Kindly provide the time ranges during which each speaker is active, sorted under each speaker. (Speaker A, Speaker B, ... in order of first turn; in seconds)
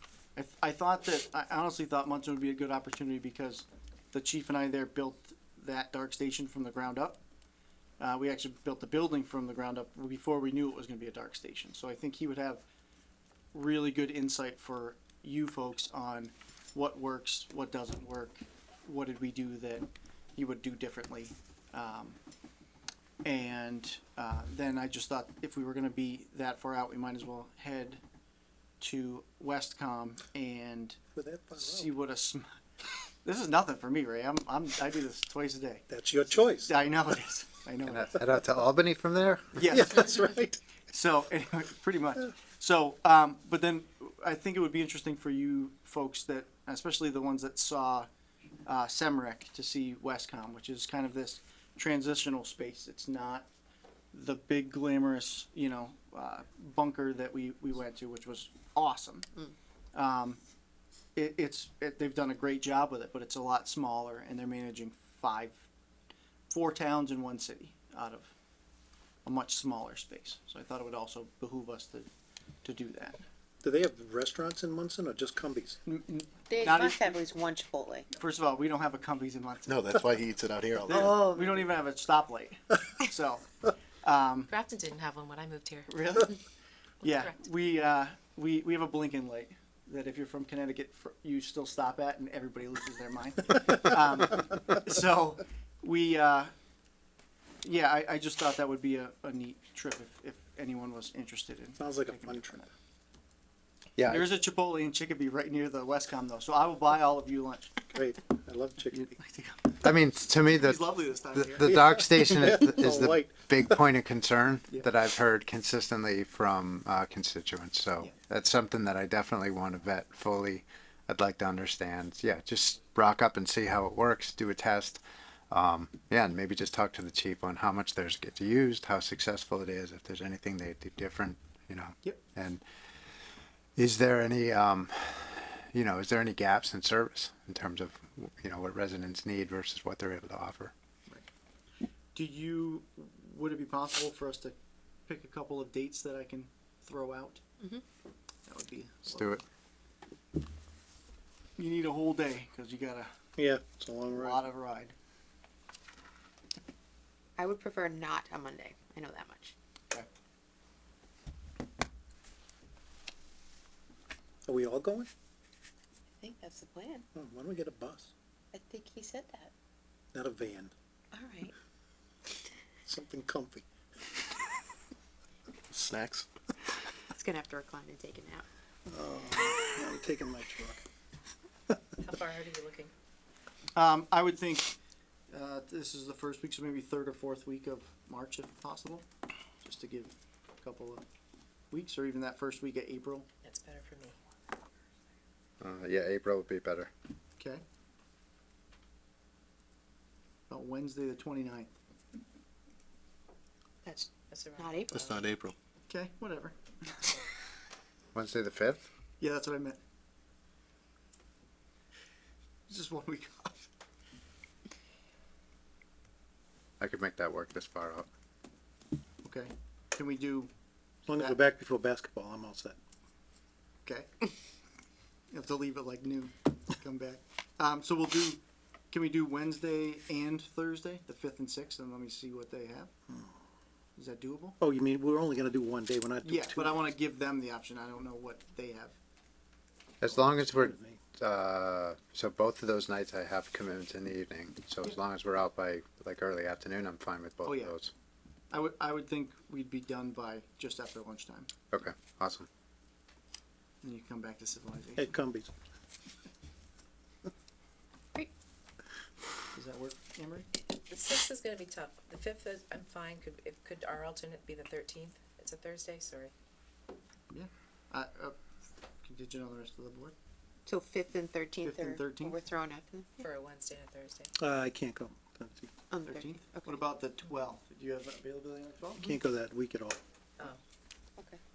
Speaker A: 0.3-7.2, 8.0-12.6, 13.5-22.2, 23.2-28.0, 28.8-31.0, 31.6-32.6, 33.2-35.8, 36.6-38.1, 39.5-40.2, 40.9-48.1, 48.6-53.5, 54.1-59.3, 59.9-60.4, 61.1-65.6, 66.5-68.3, 69.2-72.1, 72.6-73.2, 75.9-77.2, 78.1-80.1, 80.8-83.5, 84.0-84.5, 85.9-86.3, 87.0-96.5, 97.6-102.7, 104.1-107.8, 108.9-109.9, 110.5-112.0, 142.1-144.5, 145.1-147.4, 148.5-149.4, 151.6-153.1, 154.1-154.9, 183.7-184.7, 185.3-189.1, 189.6-191.0, 191.7-193.3, 200.5-201.7, 205.9-207.2, 209.2-209.8, 212.7-213.7, 219.2-220.5, 223.8-224.3, 225.3-228.4, 228.9-232.9, 233.9-234.6, 236.2-238.9, 247.4-247.8, 248.5-251.5, 253.8-255.0, 259.5-260.5, 267.3-268.4, 269.0-270.1, 271.6-272.4, 276.0-279.1
Speaker B: 31.1-31.9, 35.9-36.7, 39.7-40.6, 73.6-75.8, 101.8-102.5, 107.9-109.2, 111.6-113.8, 153.3-154.4, 164.4-165.1, 167.1-168.1, 170.1-170.7, 172.8-173.6, 178.9-180.8, 221.1-222.8, 234.6-236.8, 240.1-241.0, 255.0-255.5, 274.4-275.7, 279.0-280.0
Speaker C: 37.8-39.8, 104.0-104.3, 109.8-132.6, 133.8-140.7, 149.1-149.4, 195.6-196.9, 208.1-208.8, 216.8-218.1, 240.0-247.9, 251.7-252.5
Speaker D: 76.5-78.1, 81.2-81.5, 157.4-159.5, 166.2-167.1, 168.5-169.5, 171.1-171.5, 177.1-178.4, 203.8-204.9, 270.6-273.1, 275.9-276.7
Speaker E: 79.7-81.2, 175.7-176.3, 204.9-205.5
Speaker F: 84.5-86.0, 182.0-182.9, 193.4-194.2, 204.3-205.3, 260.9-266.3, 273.2-274.3